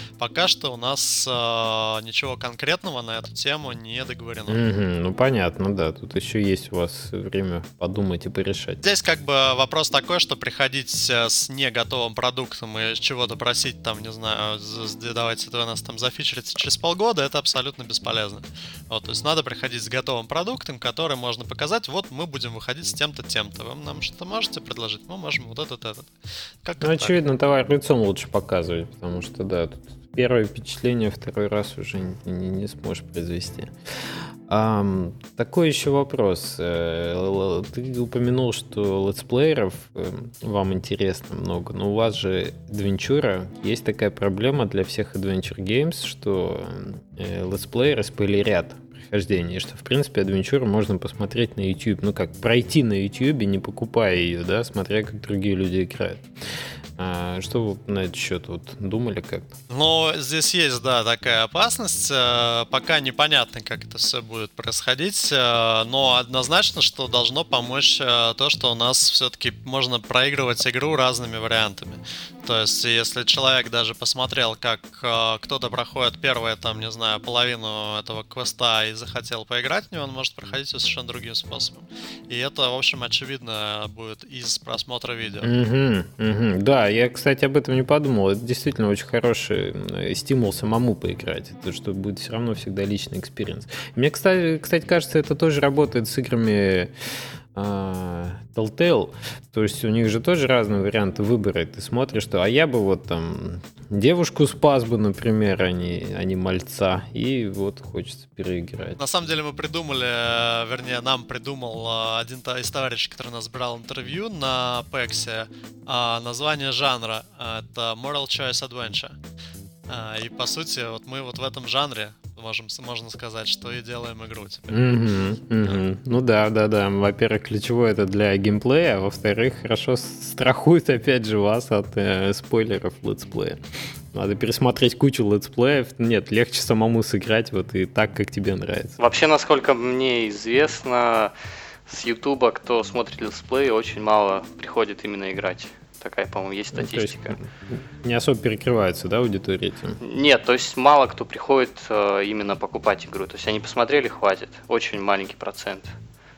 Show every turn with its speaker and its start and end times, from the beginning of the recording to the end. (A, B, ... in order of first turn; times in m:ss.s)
0:00.2-0:04.6 A
0:04.5-0:08.8 B
0:08.8-0:26.1 A
0:26.6-0:27.2 A
0:26.8-0:33.7 B
0:34.5-0:56.2 B
0:57.0-0:59.5 B
0:59.7-1:25.5 A
1:25.4-1:36.9 B
1:37.6-1:49.0 B
1:49.0-1:59.2 A
1:59.9-2:04.8 A
2:04.7-2:13.6 B
2:14.1-2:19.0 B
2:19.0-2:21.3 C
2:21.9-2:27.4 C
2:26.7-2:30.0 B
2:30.0-2:35.9 C